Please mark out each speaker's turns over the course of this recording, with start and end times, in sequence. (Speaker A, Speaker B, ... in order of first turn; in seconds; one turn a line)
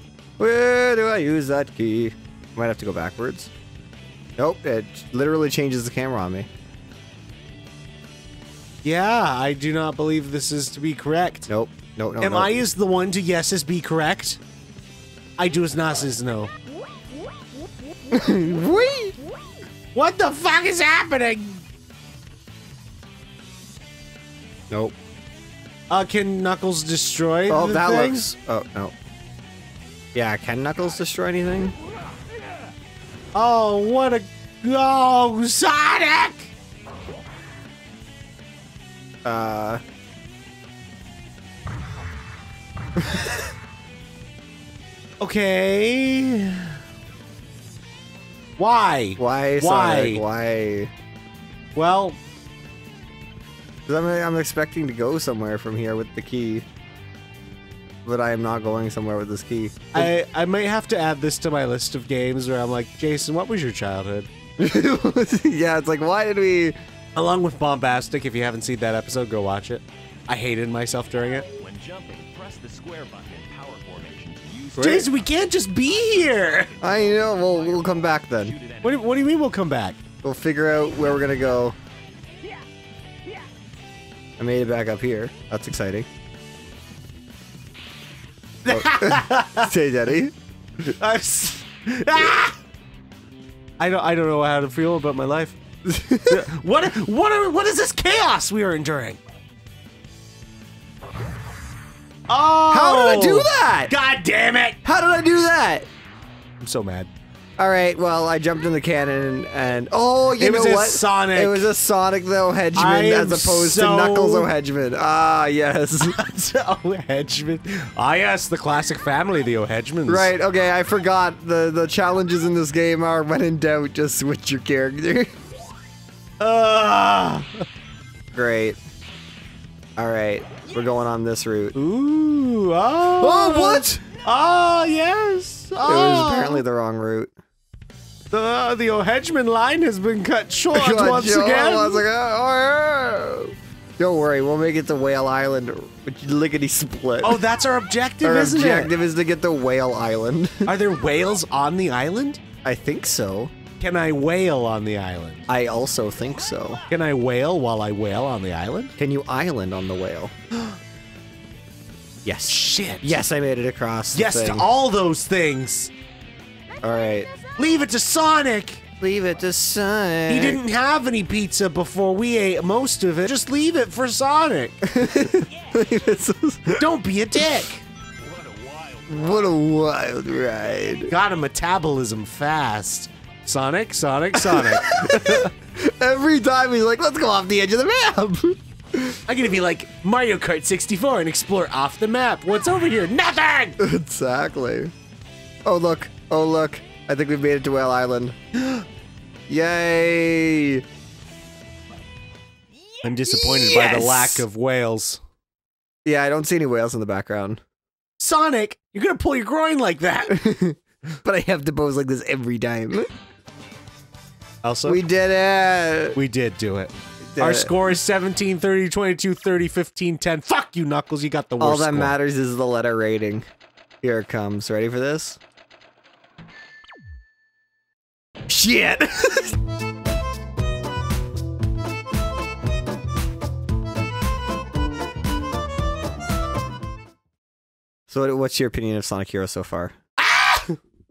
Speaker A: 0.4-3.5
Speaker A: 4.4-6.5
Speaker B: 8.8-11.5
Speaker A: 11.5-12.6
Speaker B: 12.2-14.4
Speaker B: 15.4-16.5
Speaker A: 18.1-19.2
Speaker B: 19.9-21.6
Speaker B: 25.9-28.3
Speaker A: 27.5-28.9
Speaker A: 30.1-31.7
Speaker B: 33.3-36.5
Speaker A: 39.2-39.8
Speaker B: 45.2-46.8
Speaker B: 48.6-50.2
Speaker A: 49.2-50.9
Speaker B: 51.8-52.2
Speaker A: 53.9-56.6
Speaker A: 58.0-60.1
Speaker B: 59.9-64.3
Speaker A: 64.6-66.8
Speaker B: 67.2-71.5
Speaker C: 71.5-75.0
Speaker A: 74.8-75.1
Speaker B: 74.8-76.7
Speaker C: 76.7-79.0
Speaker A: 76.8-78.5
Speaker B: 78.8-80.0
Speaker A: 80.2-81.8
Speaker A: 84.4-86.1
Speaker B: 88.6-89.7
Speaker A: 88.7-90.3
Speaker B: 90.8-92.5
Speaker B: 93.8-95.5
Speaker A: 95.8-96.4
Speaker B: 96.3-99.2
Speaker B: 102.3-104.8
Speaker A: 102.7-103.9
Speaker A: 104.8-105.9
Speaker B: 106.6-107.1
Speaker A: 107.6-116.1
Speaker B: 110.3-111.7
Speaker B: 112.7-114.5
Speaker B: 116.0-120.3
Speaker A: 120.1-125.3
Speaker B: 126.4-127.6
Speaker A: 128.3-128.8
Speaker A: 130.0-131.7
Speaker B: 131.7-136.6
Speaker A: 133.2-134.0
Speaker A: 135.8-137.3
Speaker B: 138.3-142.0
Speaker A: 140.7-147.4
Speaker B: 147.2-148.9
Speaker A: 148.2-150.7
Speaker B: 150.6-152.4
Speaker A: 152.6-153.5
Speaker B: 153.8-155.4
Speaker A: 155.5-156.8
Speaker B: 156.9-158.9
Speaker A: 159.0-160.3
Speaker A: 162.2-164.7
Speaker B: 162.5-163.2
Speaker B: 164.1-165.9
Speaker A: 166.8-167.3
Speaker B: 167.6-168.8
Speaker A: 169.0-170.6
Speaker B: 170.3-174.9
Speaker A: 174.8-176.8
Speaker C: 175.4-175.8
Speaker B: 176.8-177.8
Speaker C: 178.2-179.5
Speaker A: 179.1-181.1
Speaker B: 181.1-185.5
Speaker A: 184.3-189.2
Speaker B: 189.3-193.8
Speaker A: 193.8-194.9
Speaker A: 195.6-198.3
Speaker A: 199.5-200.8
Speaker B: 203.0-205.2
Speaker A: 203.3-204.4
Speaker A: 206.0-207.6
Speaker B: 208.2-210.4
Speaker A: 210.3-213.1
Speaker B: 214.6-215.0
Speaker A: 214.8-216.2
Speaker B: 216.1-222.1
Speaker A: 217.3-217.7
Speaker A: 221.6-223.4
Speaker A: 224.0-225.4
Speaker A: 228.5-229.5
Speaker A: 238.1-239.9
Speaker B: 240.2-240.8